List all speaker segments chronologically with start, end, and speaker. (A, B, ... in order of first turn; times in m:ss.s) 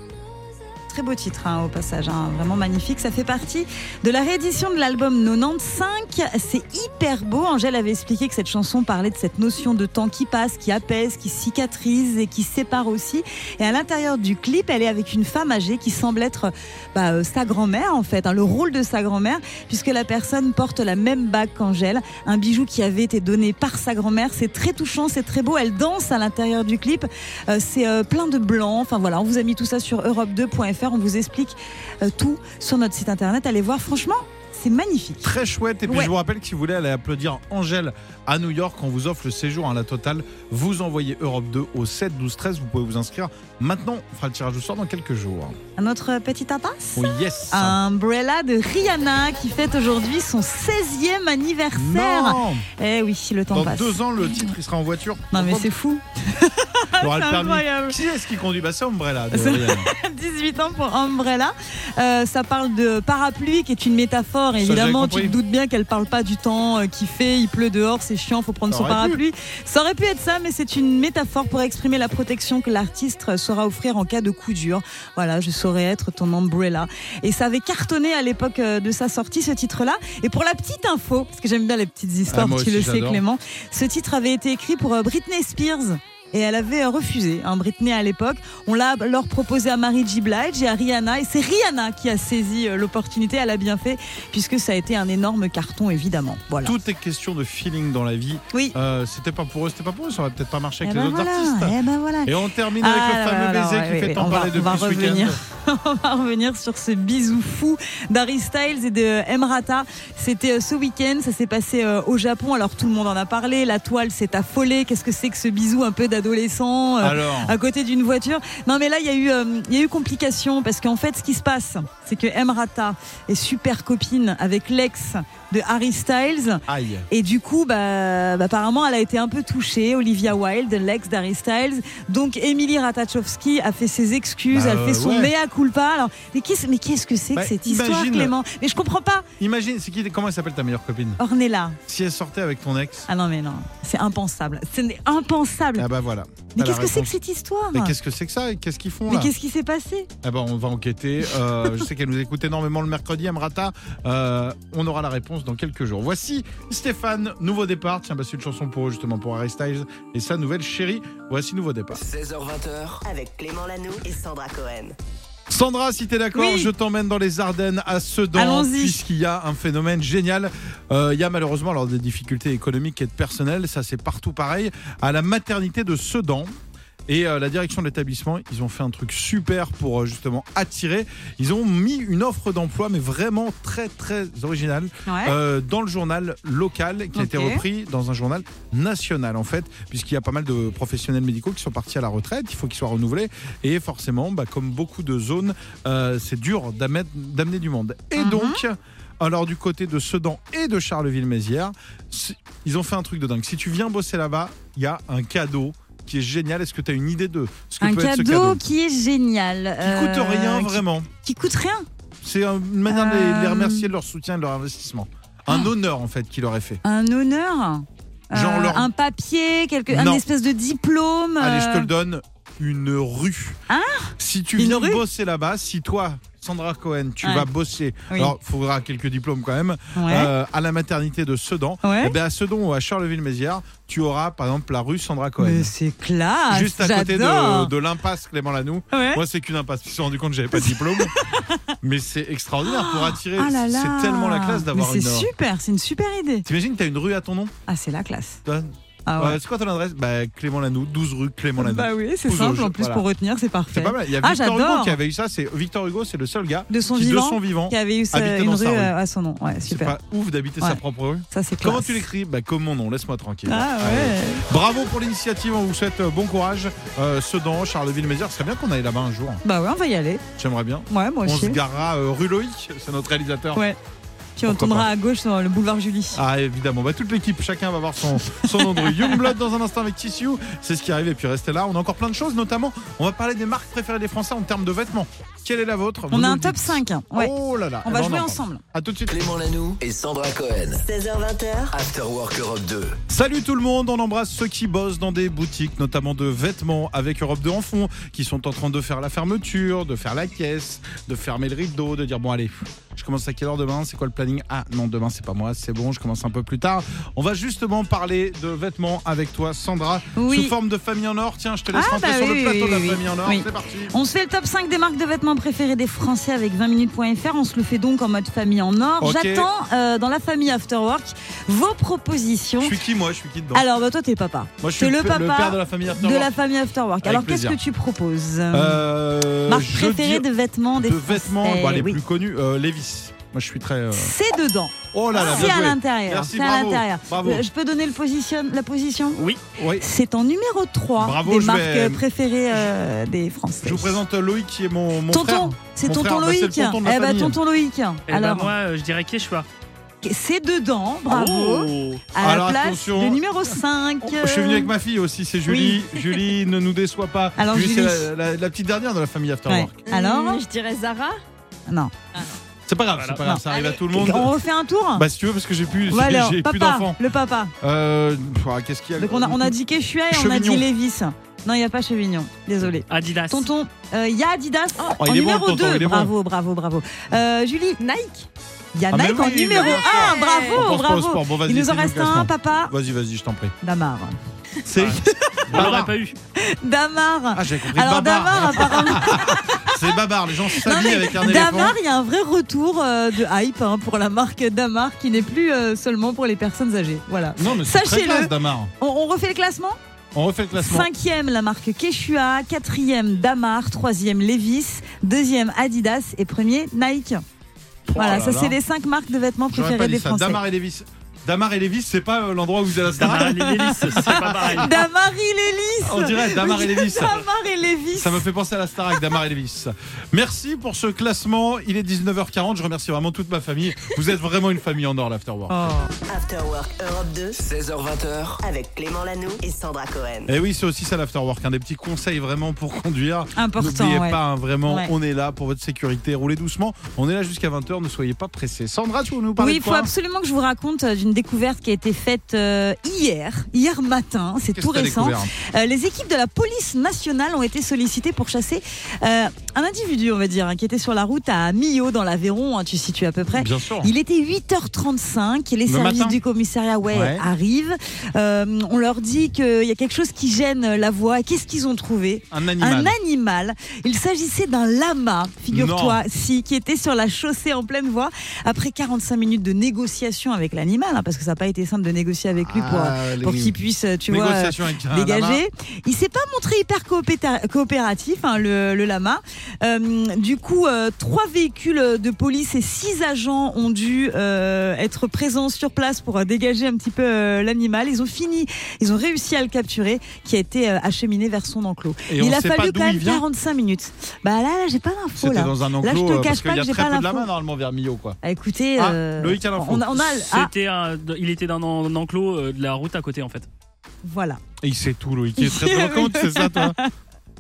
0:00.9-0:36.1 A
0:35.2-0:45.6 B
0:45.8-0:54.0 A
0:47.0-0:47.8 B
0:51.8-0:52.7 B
0:53.5-0:55.7 B
0:55.3-0:58.0 A
0:57.0-0:59.9 B
0:59.3-1:36.8 A
1:04.6-1:05.4 B
1:08.7-1:09.2 B
1:22.3-1:23.2 B
1:36.6-1:45.4 B
1:40.8-2:19.3 A
1:57.0-1:57.6 B
2:06.7-2:07.1 B
2:14.5-2:15.3 B
2:17.3-2:18.4 B
2:19.4-2:21.2 B
2:21.2-2:21.8 A
2:21.9-2:23.1 B
2:23.1-2:25.9 A
2:25.8-2:27.2 B
2:26.6-2:28.0 A
2:27.7-2:29.3 B
2:29.1-2:30.1 A
2:30.2-2:42.0 B
2:41.9-2:43.0 C
2:43.0-2:45.0 D
2:45.5-2:56.5 B
2:46.3-2:46.7 A
2:48.4-2:49.0 A
2:57.1-3:28.6 B
3:05.1-3:05.4 A
3:07.2-3:07.6 A
3:18.2-3:18.6 A
3:27.8-3:31.9 A
3:29.8-3:31.1 B
3:32.2-3:36.8 B
3:32.9-3:33.9 A
3:36.8-3:41.9 A
3:38.3-3:38.9 B
3:39.9-3:40.2 B
3:41.4-3:43.6 B
3:43.7-3:45.0 A
3:44.2-3:55.7 B
3:47.2-3:47.5 A
3:50.0-3:50.3 A
3:51.8-3:52.2 A
3:55.4-3:57.7 A
3:56.5-4:01.2 B
3:58.9-3:59.2 A
4:00.6-4:01.6 A
4:01.8-4:05.3 B
4:02.6-4:06.5 A
4:06.5-4:07.6 B
4:07.7-4:08.4 A
4:08.5-4:13.0 B
4:09.1-4:09.4 A
4:11.6-4:15.0 A
4:13.7-4:19.0 B
4:16.7-4:20.0 A
4:19.7-4:29.4 B
4:21.3-4:22.0 A
4:23.5-4:24.4 A
4:29.4-4:30.2 A
4:30.4-4:33.6 B
4:30.9-4:31.6 A
4:34.4-4:36.2 A
4:34.4-4:34.9 B
4:36.1-4:49.1 B
4:38.4-4:39.2 A
4:46.1-4:48.6 A
4:49.1-4:50.8 C
4:50.8-4:51.8 D
4:51.7-4:53.0 C
4:53.1-5:13.9 B
5:10.2-5:10.6 A
5:11.7-5:22.8 A
5:19.0-5:19.5 B
5:22.6-5:23.7 B
5:23.5-5:28.8 A
5:24.6-5:26.3 B
5:27.0-5:27.6 B
5:28.5-5:34.2 B
5:29.5-5:32.0 A
5:34.0-5:39.3 A
5:34.9-5:37.4 B
5:39.2-5:39.4 E
5:39.6-5:39.9 B
5:39.8-5:44.0 A
5:41.0-5:42.6 B
5:43.6-5:47.4 B
5:45.1-5:48.5 A
5:48.1-5:49.5 E
5:50.0-5:54.7 A
5:51.1-5:52.0 E
5:52.2-5:53.2 B
5:54.1-5:59.9 B
5:55.5-5:56.0 A
5:57.4-5:58.1 A
5:59.5-6:00.4 A
5:59.9-6:01.2 F
6:01.7-6:02.0 A
6:02.7-6:04.4 B
6:02.9-6:03.3 E
6:03.2-6:05.0 A
6:03.5-6:03.8 F
6:05.0-6:07.0 B
6:05.9-6:07.5 A
6:07.6-6:09.5 B
6:09.0-6:17.8 A
6:10.1-6:10.7 B
6:12.9-6:13.5 E
6:15.0-6:16.1 B
6:17.8-6:18.3 F
6:18.8-6:22.7 A
6:18.9-6:23.6 B
6:19.4-6:20.6 F
6:23.6-6:24.2 A
6:24.6-6:26.0 B
6:25.0-6:25.7 A
6:25.5-6:26.2 E
6:26.4-6:29.8 A
6:27.3-6:31.8 B
6:30.5-6:39.8 A
6:37.4-6:38.7 B
6:40.1-6:40.9 B
6:40.6-6:47.2 A
6:47.9-6:48.6 B
6:48.0-6:50.4 A
6:49.5-6:54.7 B
6:53.0-6:54.8 E
6:53.0-6:58.3 A
6:55.8-6:57.2 B
6:58.0-7:05.6 B
7:05.5-7:05.9 A
7:06.1-7:07.4 D
7:07.4-7:08.4 C
7:08.4-7:10.3 D
7:10.3-7:19.9 B
7:13.4-7:14.9 A
7:19.4-8:17.3 A
7:24.5-7:25.3 B
7:33.3-7:33.9 B
7:35.7-7:36.2 B
7:36.9-7:37.3 B
7:42.3-7:43.0 B
7:45.5-7:46.0 B
7:52.4-7:53.6 B
7:54.1-7:55.4 B
8:12.1-8:13.2 B
8:15.2-8:18.2 B
8:18.2-8:20.5 A
8:18.8-8:20.3 B
8:20.3-8:23.5 E
8:24.0-8:24.4 A
8:24.6-8:26.8 B
8:25.4-8:26.9 A